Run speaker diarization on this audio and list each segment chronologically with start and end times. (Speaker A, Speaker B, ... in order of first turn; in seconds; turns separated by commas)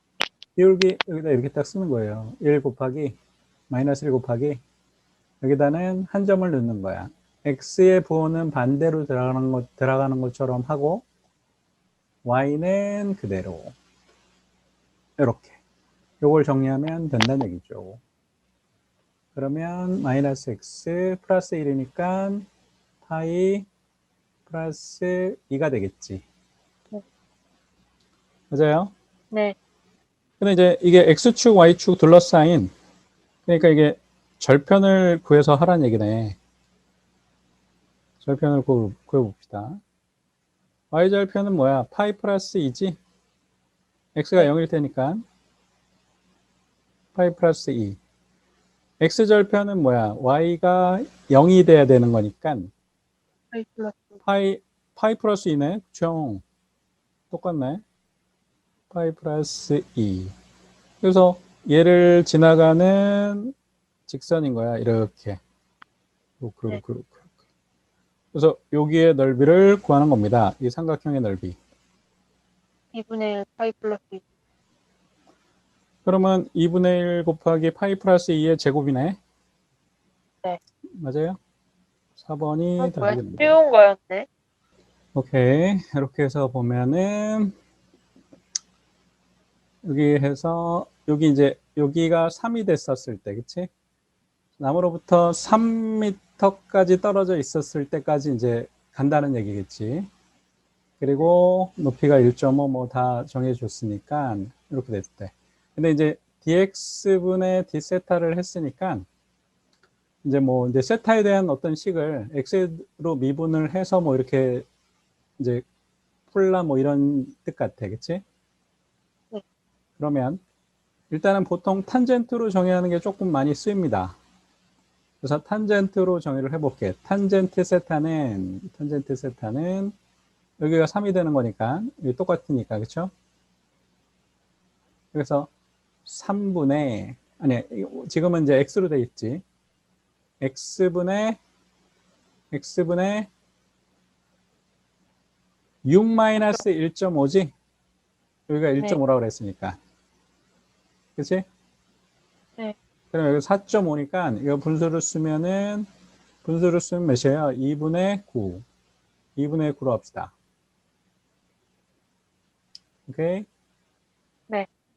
Speaker A: 0.6-3.2, Speaker A: 3.7-4.6, Speaker A: 5.4-11.0, Speaker A: 12.2-13.8, Speaker A: 15.2-15.6, Speaker A: 16.2-18.0, Speaker A: 19.4-22.5, Speaker A: 23.0-23.7, Speaker A: 24.5-26.2, Speaker A: 28.5-28.9, Speaker A: 30.4-32.7, Speaker A: 33.5-36.4, Speaker A: 38.2-39.8, Speaker A: 40.9-43.0, Speaker A: 44.1-45.2, Speaker A: 47.1-48.0, Speaker A: 49.0-52.7, Speaker B: 53.5-54.1, Speaker A: 54.2-56.4, Speaker A: 57.3-57.8, Speaker A: 58.9-60.3, Speaker A: 61.0-63.5, Speaker A: 64.1-65.4, Speaker A: 66.4-67.3, Speaker A: 68.3-71.6, Speaker B: 72.9-74.2, Speaker A: 76.1-79.2, Speaker A: 81.0-81.4, Speaker A: 82.2-83.6, Speaker B: 82.8-84.3, Speaker A: 85.2-87.5, Speaker A: 89.8-93.7, Speaker A: 94.6-100.1, Speaker A: 101.0-109.0, Speaker A: 110.2-114.7, Speaker A: 115.4-115.7, Speaker A: 116.3-118.2, Speaker A: 120.0-120.4, Speaker A: 121.1-124.2, Speaker A: 125.2-129.9, Speaker A: 130.6-133.1, Speaker A: 135.1-135.5, Speaker A: 136.1-139.4, Speaker A: 140.4-141.4, Speaker A: 142.5-143.3, Speaker A: 145.9-147.5, Speaker A: 148.5-149.8, Speaker A: 151.2-151.5, Speaker A: 153.1-155.9, Speaker A: 156.4-158.7, Speaker A: 159.4-160.3, Speaker A: 163.1-163.5